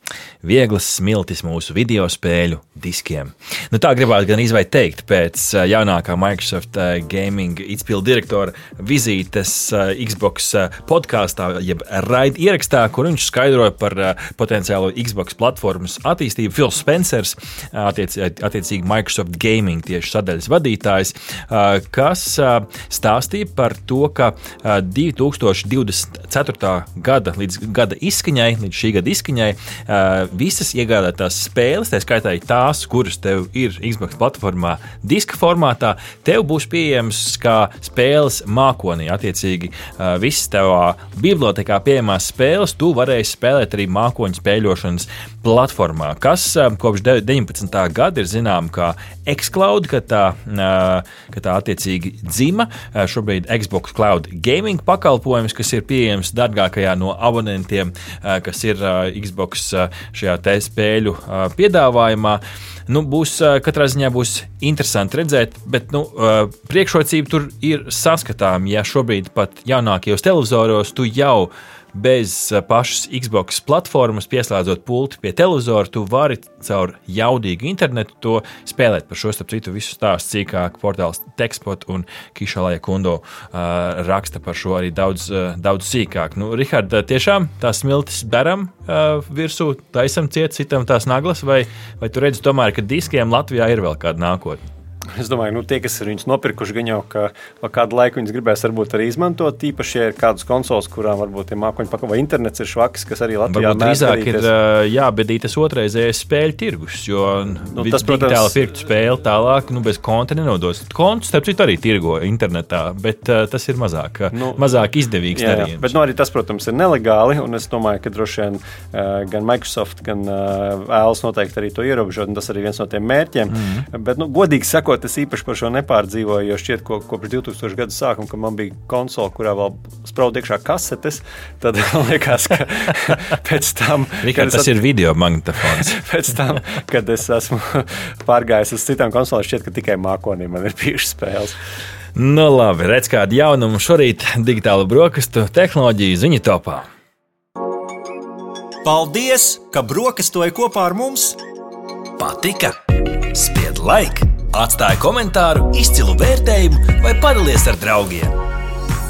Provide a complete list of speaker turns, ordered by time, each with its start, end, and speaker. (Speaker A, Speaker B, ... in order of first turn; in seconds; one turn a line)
Speaker A: 0.4-94.7
Speaker B: 95.2-104.5
Speaker A: 103.5-116.0
Speaker B: 107.7-108.6
Speaker B: 114.3-114.7
Speaker B: 115.3-134.8
Speaker A: 123.5-123.8
Speaker A: 134.2-135.9
Speaker B: 135.6-141.6
Speaker A: 142.2-146.9
Speaker C: 148.8-151.4
Speaker A: 152.2-158.3